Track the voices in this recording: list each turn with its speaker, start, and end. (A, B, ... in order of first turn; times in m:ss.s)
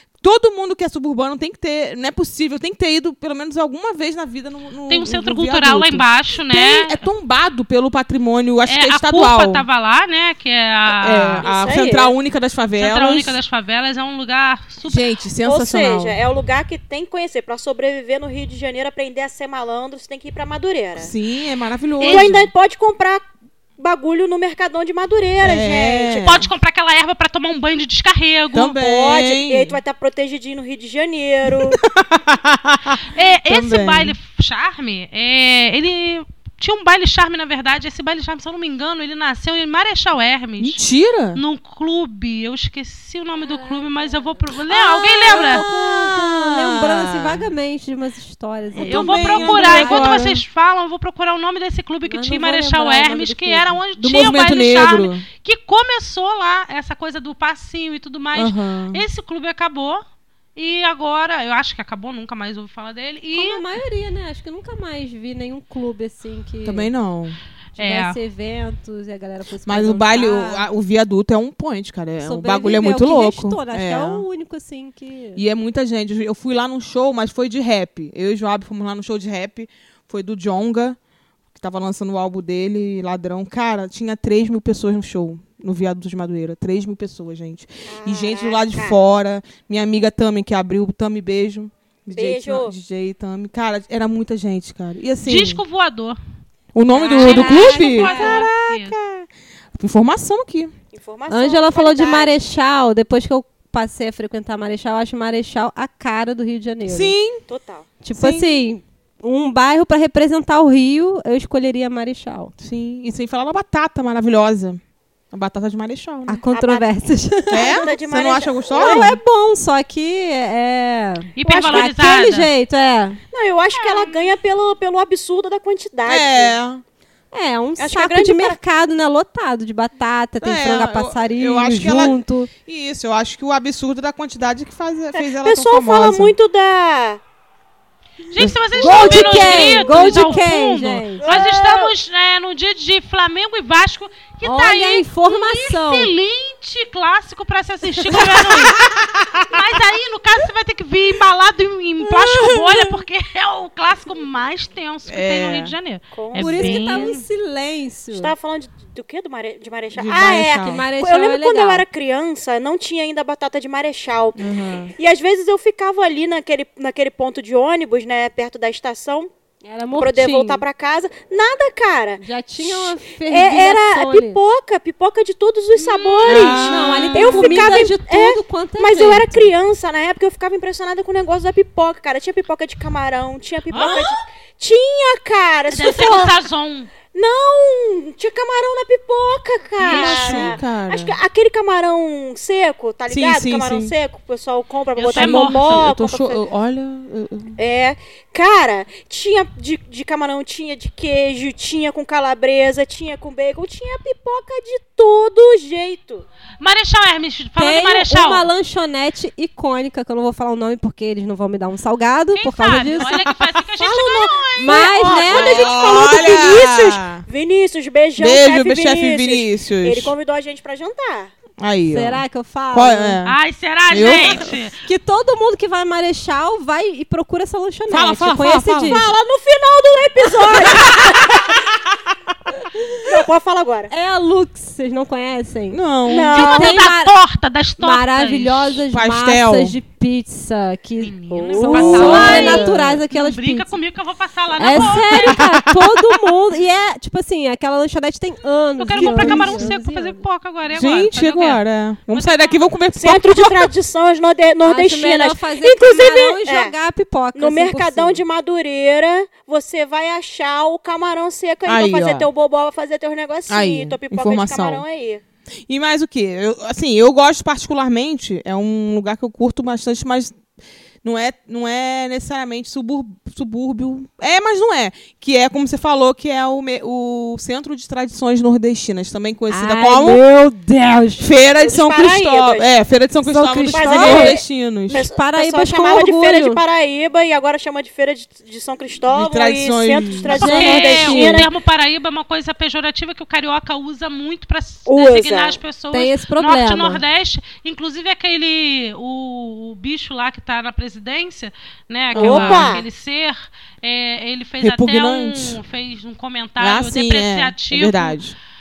0:00.2-0:09.6 A
0:04.9-0:07.0 B
0:08.7-0:11.4 B
0:10.9-0:13.4 A
0:11.4-0:12.1 C
0:12.8-0:15.0 B
0:14.8-0:16.2 A
0:15.4-0:21.1 C
0:21.0-0:22.5 A
0:22.0-0:22.4 B
0:22.0-0:23.3 C
0:23.8-0:26.2 C
0:25.4-0:26.5 A
0:26.1-0:28.8 B
0:28.5-0:29.8 A
0:28.7-0:31.8 C
0:31.5-0:34.2 A
0:33.1-0:40.8 B
0:40.6-0:41.4 A
0:41.3-0:45.6 B
0:43.4-0:44.4 D
0:44.7-0:47.4 A
0:45.2-0:50.2 D
0:48.8-0:50.4 A
0:48.8-1:00.0 B
0:52.1-0:53.8 D
0:54.0-0:55.2 A
0:58.3-0:59.0 A
1:00.6-1:03.6 B
1:03.4-1:06.9 D
1:06.6-1:07.4 A
1:07.8-1:08.2 B
1:07.8-1:10.6 D
1:09.6-1:14.2 A
1:12.2-1:15.4 D
1:15.4-1:21.0 A
1:21.6-1:35.6 A
1:27.9-1:29.0 C
1:32.1-1:32.7 C
1:35.2-1:36.2 B
1:36.7-1:40.7 A
1:37.0-1:39.0 B
1:37.1-1:38.4 D
1:37.2-1:37.5 C
1:40.9-1:42.4 C
1:41.3-1:47.1 D
1:46.8-1:47.4 A
1:47.5-1:47.9 C
1:48.0-1:52.5 D
1:48.1-1:48.6 A
1:52.6-1:54.8 A
1:55.3-1:56.4 A
1:56.3-1:57.8 D
1:56.5-1:56.9 C
1:57.5-1:59.2 A
1:57.5-1:59.2 C
1:58.7-2:03.2 D
2:01.4-2:02.5 B
2:01.4-2:01.9 C
2:03.3-2:06.5 C
2:03.7-2:04.3 B
2:06.0-2:06.8 A
2:07.3-2:12.5 D
2:07.8-2:08.6 C
2:10.4-2:16.4 A
2:15.2-2:17.2 C
2:18.3-2:28.8 B
2:18.8-2:20.5 C
2:18.8-2:21.2 D
2:21.2-2:21.9 C
2:24.4-2:26.1 D
2:28.1-2:29.5 A
2:29.5-2:37.2 B
2:32.0-2:33.0 A
2:35.1-2:35.7 A
2:36.1-2:37.2 C
2:36.4-2:38.3 D
2:38.1-2:44.4 C
2:39.9-2:40.8 A
2:40.4-2:41.8 D
2:44.4-2:44.9 A
2:45.0-2:49.3 C
2:49.6-2:50.6 D
2:50.0-3:06.4 C
2:52.2-2:54.4 D
2:55.7-2:57.2 B
2:56.2-2:57.8 A
2:56.6-2:59.5 D
3:03.7-3:04.1 B
3:03.8-3:04.0 A
3:05.7-3:06.9 B
3:07.1-3:16.4 C
3:09.8-3:10.6 B
3:09.8-3:11.2 A
3:13.1-3:13.9 A
3:15.0-3:15.9 B
3:15.1-3:17.6 A
3:17.6-3:26.2 C
3:26.6-3:28.5 B
3:27.6-3:33.1 D
3:32.4-3:35.0 B
3:33.0-3:33.4 A
3:33.8-3:41.3 C
3:34.6-3:35.8 D
3:35.2-3:37.2 A
3:38.2-3:40.1 A
3:41.6-3:43.4 A
3:41.9-3:43.2 D
3:43.2-3:44.8 B
3:43.9-3:44.5 A
3:44.8-3:49.1 D
3:47.9-3:49.1 A
3:48.8-3:51.6 C
3:50.6-3:51.4 A
3:53.0-3:53.9 C
3:53.9-3:57.1 D
3:55.7-3:56.4 A
3:56.0-3:56.8 C
3:56.3-3:58.8 B
3:57.8-4:03.7 D
3:58.9-3:59.8 A
4:01.0-4:05.4 B
4:01.3-4:02.7 C
4:01.7-4:03.0 A
4:04.6-4:10.2 D
4:05.2-4:05.8 A
4:08.8-4:12.6 B
4:09.0-4:09.7 A
4:10.7-4:13.7 A
4:12.9-4:16.7 C
4:14.6-4:18.2 D
4:17.3-4:25.2 C
4:21.6-4:22.3 A
4:23.5-4:24.8 A
4:25.7-4:30.4 A
4:31.0-4:40.2 A
4:39.5-4:41.3 D
4:41.2-4:45.0 A
4:41.6-4:42.7 C
4:43.2-4:46.6 D
4:43.7-4:51.5 C
4:49.1-4:50.9 A
4:50.3-4:51.4 D
4:50.3-5:08.2 B
4:54.9-4:55.6 C
4:55.9-4:57.0 D
5:02.1-5:02.8 A
5:02.1-5:02.8 C
5:04.6-5:05.6 A
5:06.6-5:08.4 A